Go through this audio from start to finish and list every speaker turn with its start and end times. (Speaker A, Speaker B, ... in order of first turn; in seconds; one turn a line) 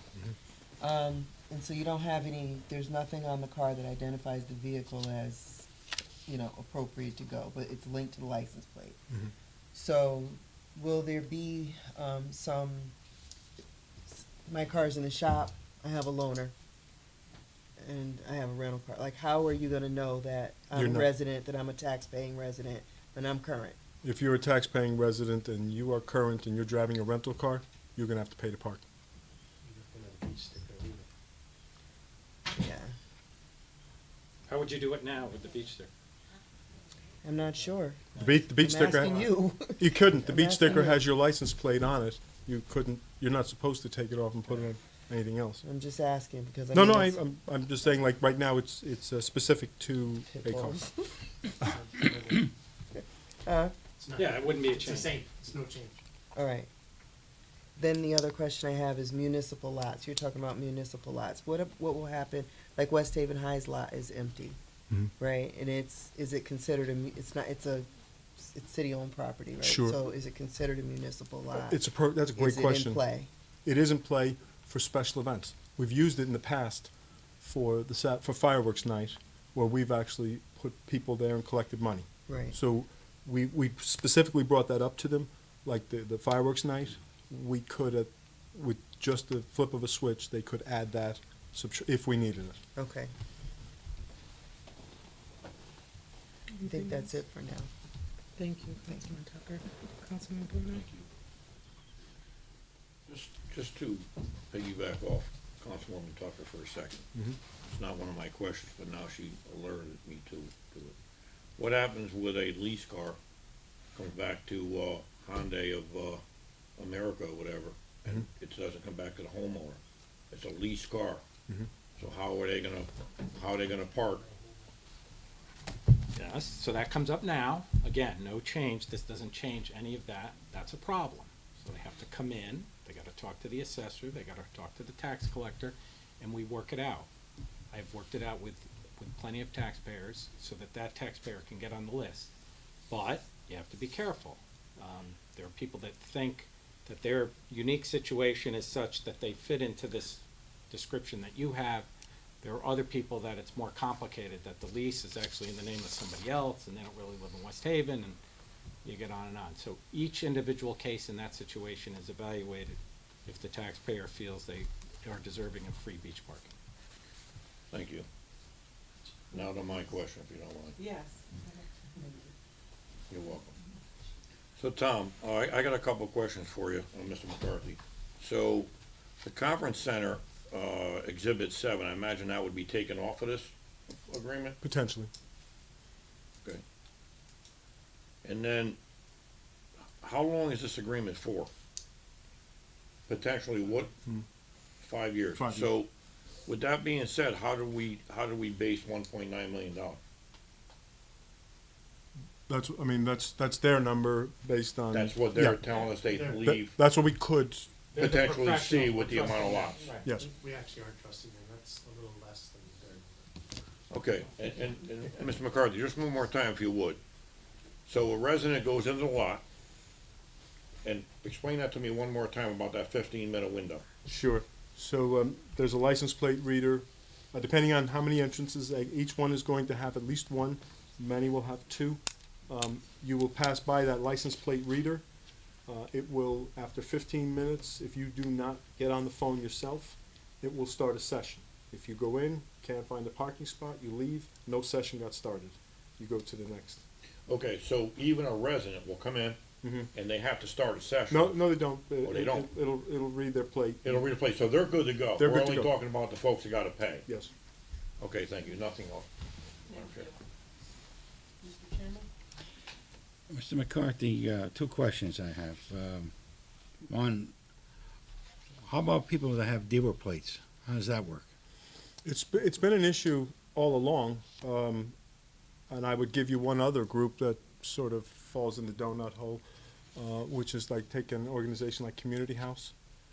Speaker A: 0.8-5.7
Speaker A: 6.3-9.0
Speaker A: 9.7-12.9
Speaker A: 14.1-16.5
Speaker A: 17.8-23.8
Speaker B: 20.8-21.1
Speaker B: 24.0-28.8
Speaker C: 29.6-31.1
Speaker A: 32.5-32.9
Speaker D: 34.5-35.9
Speaker A: 37.2-41.0
Speaker B: 38.2-45.6
Speaker A: 45.6-47.2
Speaker B: 46.7-50.9
Speaker A: 50.3-51.1
Speaker C: 51.6-52.5
Speaker A: 53.5-53.7
Speaker C: 54.0-56.0
Speaker D: 54.1-55.2
Speaker A: 56.3-56.7
Speaker A: 57.8-64.6
Speaker A: 65.2-73.3
Speaker B: 69.6-70.0
Speaker B: 71.5-73.0
Speaker B: 73.6-76.9
Speaker B: 77.4-92.6
Speaker A: 82.3-82.5
Speaker A: 92.8-93.1
Speaker E: 96.6-97.0
Speaker A: 96.6-97.7
Speaker E: 98.4-100.8
Speaker F: 100.7-101.0
Speaker F: 103.1-107.0
Speaker F: 107.6-110.9
Speaker F: 111.6-113.2
Speaker F: 113.9-116.2
Speaker F: 116.8-121.2
Speaker F: 122.0-124.3
Speaker D: 126.1-137.1
Speaker D: 137.7-142.3
Speaker D: 142.9-151.9
Speaker D: 152.4-158.2
Speaker D: 158.8-166.5
Speaker F: 167.7-168.1
Speaker F: 169.3-170.8
Speaker F: 173.1-173.5
Speaker F: 174.6-178.7
Speaker F: 179.2-184.6
Speaker B: 184.6-185.1
Speaker F: 188.2-188.8
Speaker F: 190.0-191.5
Speaker F: 193.1-193.9
Speaker F: 194.8-195.9
Speaker B: 195.3-195.7
Speaker F: 196.4-200.0
Speaker B: 202.5-205.6
Speaker F: 204.9-206.8
Speaker C: 205.8-206.4
Speaker B: 206.4-207.7
Speaker D: 207.9-210.1
Speaker F: 208.0-209.9
Speaker C: 209.9-213.5
Speaker F: 213.9-217.0
Speaker F: 217.9-219.4
Speaker F: 220.8-223.8
Speaker B: 224.1-235.0
Speaker B: 235.7-246.8
Speaker F: 247.3-249.4
Speaker B: 249.6-249.9
Speaker F: 249.9-251.5
Speaker B: 251.1-253.8
Speaker F: 252.0-252.5
Speaker F: 253.8-257.1
Speaker B: 255.2-255.7
Speaker B: 257.1-257.3
Speaker F: 258.0-259.1
Speaker F: 259.6-260.1
Speaker G: 263.3-266.1
Speaker G: 266.9-267.3
Speaker G: 268.6-271.3
Speaker B: 272.0-274.9
Speaker B: 275.7-279.4
Speaker B: 279.9-282.7